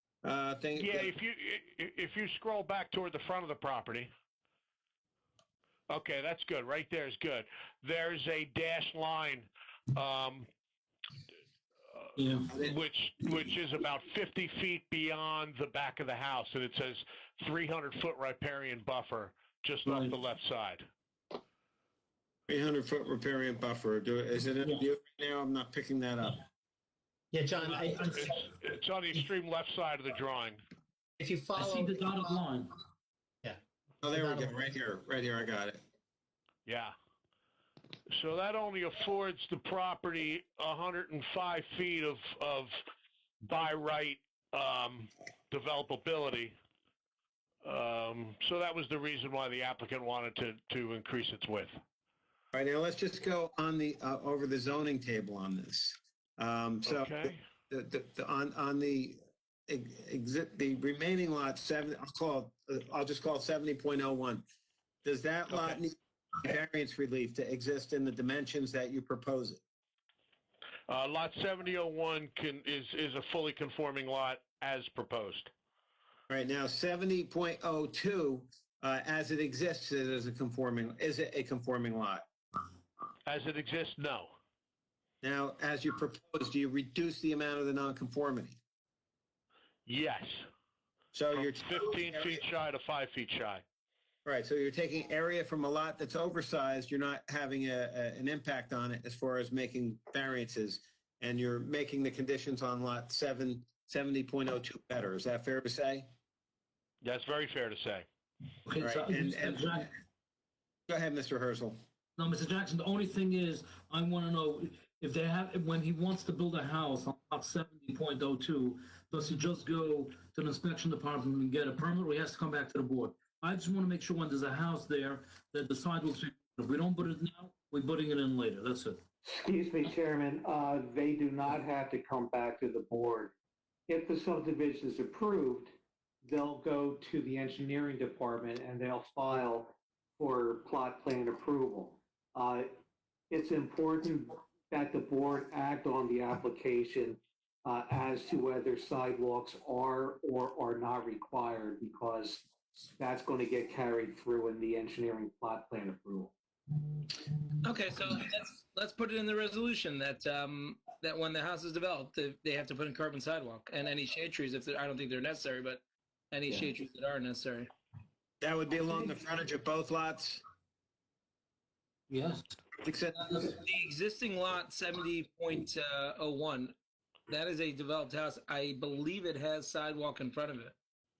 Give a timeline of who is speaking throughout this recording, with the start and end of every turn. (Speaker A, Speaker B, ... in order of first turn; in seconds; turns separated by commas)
Speaker A: 0.2-1.1, Speaker B: 0.8-4.1, Speaker B: 5.9-10.5, Speaker B: 11.9-20.9, Speaker C: 12.2-12.5, Speaker C: 19.9-20.1, Speaker A: 22.5-26.4, Speaker D: 27.3-28.1, Speaker B: 27.7-30.6, Speaker D: 31.2-31.9, Speaker C: 31.6-32.7, Speaker A: 34.0-35.8, Speaker D: 34.1-34.5, Speaker B: 36.6-36.9, Speaker B: 38.1-42.8, Speaker B: 43.4-46.5, Speaker B: 47.6-51.7, Speaker A: 52.5-64.4, Speaker B: 56.8-57.4, Speaker A: 65.0-69.6, Speaker B: 65.5-65.8, Speaker B: 70.9-75.5, Speaker A: 76.3-82.2, Speaker B: 83.2-84.3, Speaker A: 85.2-88.6, Speaker B: 89.8-90.4, Speaker A: 91.1-92.4, Speaker B: 91.3-93.6, Speaker A: 94.2-106.1, Speaker B: 107.0-108.1, Speaker C: 108.7-109.9, Speaker A: 108.8-109.9, Speaker A: 110.9-111.8, Speaker C: 112.2-129.0, Speaker E: 129.2-133.3, Speaker E: 133.9-135.7, Speaker E: 136.2-142.7, Speaker E: 143.3-156.3, Speaker F: 157.6-167.7, Speaker A: 168.4-170.4, Speaker C: 172.1-172.4, Speaker A: 172.8-173.5, Speaker F: 173.2-176.7, Speaker F: 177.3-180.7